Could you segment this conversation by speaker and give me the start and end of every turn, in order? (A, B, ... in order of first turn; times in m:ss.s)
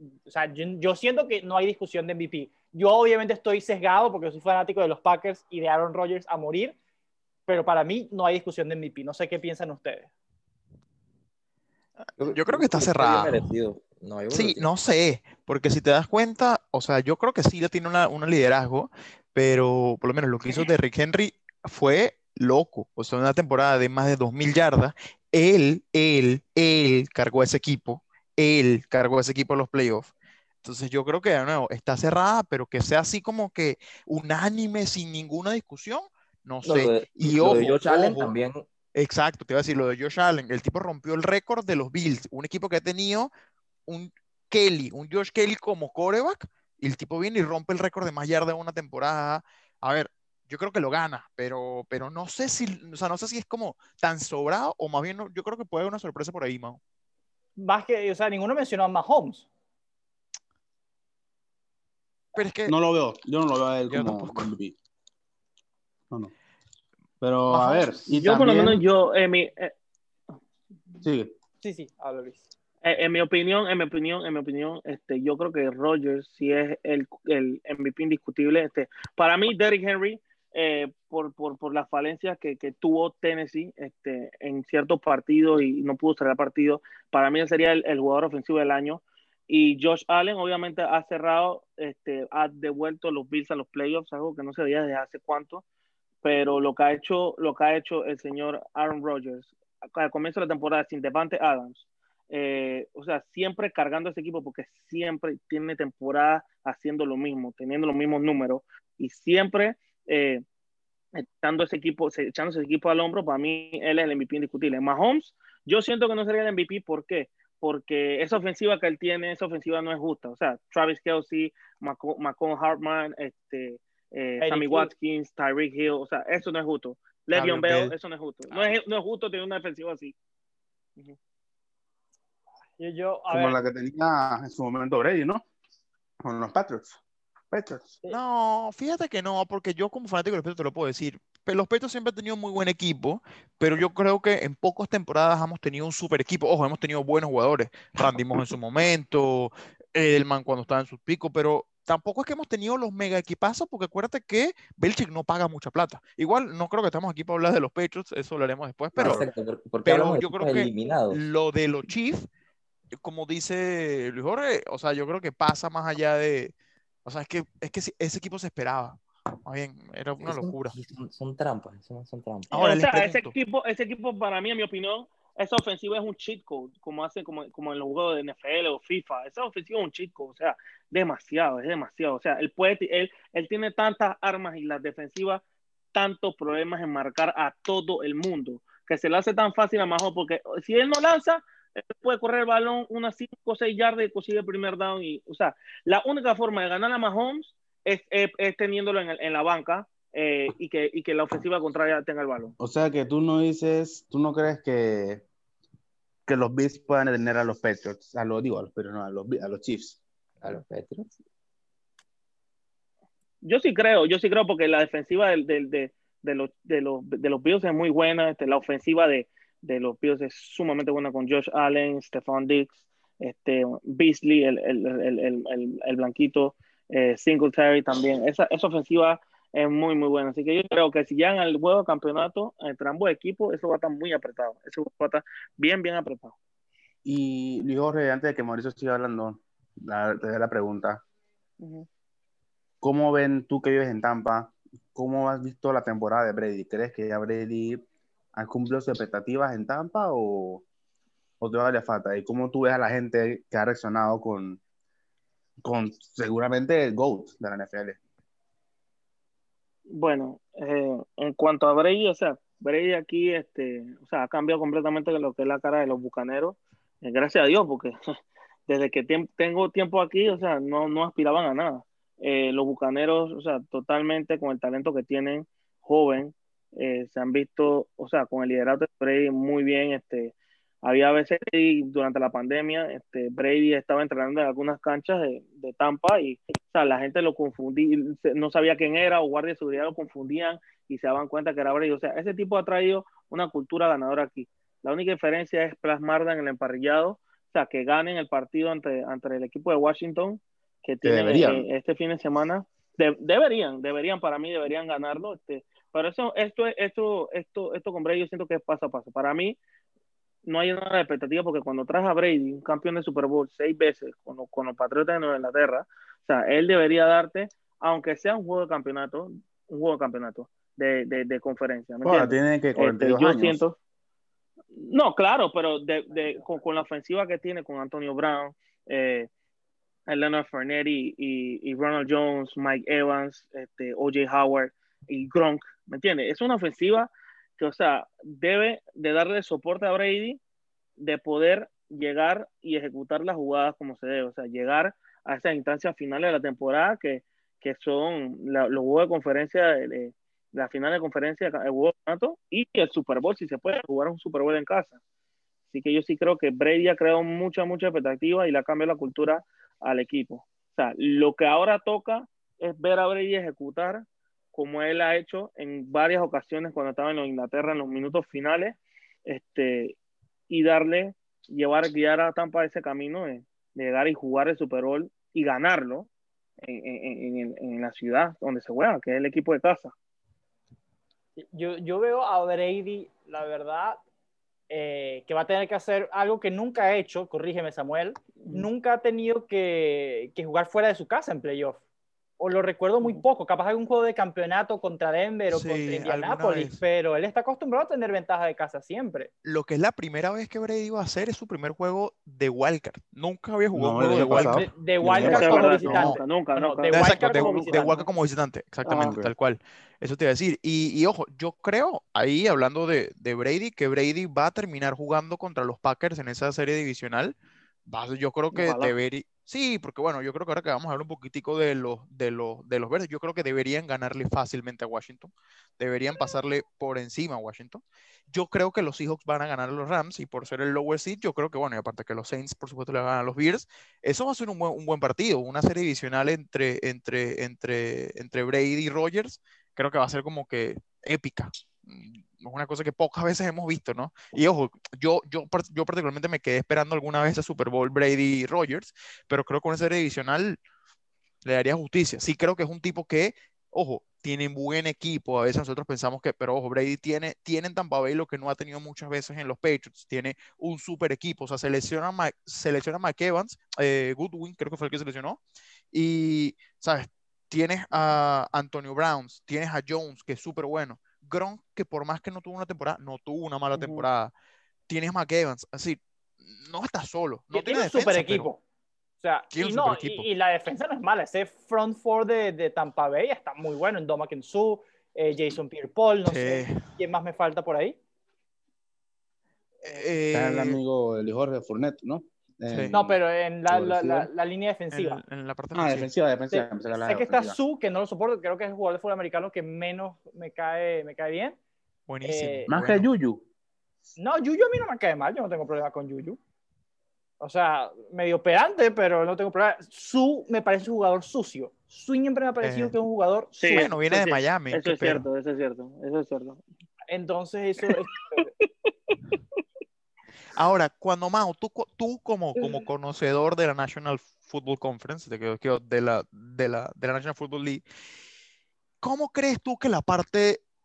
0:00.2-0:06.8 A
0:07.5-0:10.1 A
0:12.1-0:13.5 B
0:12.2-0:14.7 C
0:14.3-0:30.1 B
0:30.6-0:38.3 B
0:36.6-0:38.6 C
0:38.9-0:43.3 B
0:43.9-0:56.8 B
0:57.6-0:59.5 A
1:02.3-1:02.8 B
1:02.6-1:04.7 D
1:03.9-1:04.5 B
1:07.2-1:08.8 D
1:08.1-1:09.7 E
1:11.0-1:11.3 D
1:11.6-1:12.5 A
1:12.8-1:35.6 E
1:36.2-1:50.4 E
1:51.1-2:10.1 E
2:04.4-2:04.9 A
2:07.3-2:07.9 B
2:12.8-2:13.6 A
2:13.3-2:15.4 D
2:16.2-2:18.0 D
2:18.1-2:39.3 B
2:39.0-2:41.2 C
2:39.8-2:42.3 B
2:43.0-2:46.5 B
2:47.0-2:50.7 B
2:50.2-2:52.5 C
2:52.5-2:53.3 B
2:52.5-3:05.4 E
3:05.9-3:22.5 E
3:22.6-3:25.2 D
3:26.3-3:30.0 D
3:30.4-3:31.1 C
3:33.4-3:56.4 E
3:57.0-4:01.0 D
4:01.6-4:01.9 E
4:02.8-4:10.6 D
4:11.4-4:14.6 D
4:15.6-4:18.0 D
4:19.9-4:28.0 E
4:28.7-5:09.6 E
5:01.0-5:01.6 D
5:10.4-5:23.8 E
5:22.0-5:23.6 D
5:24.7-5:29.3 E
5:30.1-5:40.4 E
5:41.0-5:55.0 E
5:55.7-6:10.0 E
6:10.5-6:16.1 E
6:16.6-6:19.9 E
6:21.4-6:24.0 A
6:24.7-6:31.8 A
6:28.4-6:28.7 E
6:32.4-6:39.3 A
6:35.5-6:36.8 B
6:39.4-6:46.2 B
6:43.7-6:46.1 D
6:44.3-6:48.1 A
6:45.2-6:47.9 E
6:46.9-6:57.3 B
6:48.8-6:49.2 E
6:48.9-6:49.3 D
6:57.9-7:30.6 B
6:58.5-6:58.9 E
7:31.4-7:45.4 B
7:45.9-7:54.3 B
7:53.8-7:54.1 E
7:54.9-7:58.5 B
7:57.5-7:58.6 A
7:59.2-8:08.0 A
7:59.5-8:00.3 B
8:06.2-8:06.9 B
8:09.8-8:10.8 B
8:10.3-8:14.3 D
8:12.7-8:12.9 B
8:12.9-8:15.2 A
8:14.9-8:16.1 B
8:15.7-8:17.6 D
8:16.5-8:21.6 A
8:22.1-8:23.1 B
8:22.2-8:22.7 A
8:22.7-8:23.5 D
8:24.2-8:26.4 A
8:27.4-8:33.9 A
8:32.6-8:33.0 B
8:33.6-8:36.6 E
8:33.7-8:35.3 B
8:37.1-8:38.5 A
8:38.9-8:39.2 E
8:40.5-8:47.8 B
8:49.0-8:50.6 B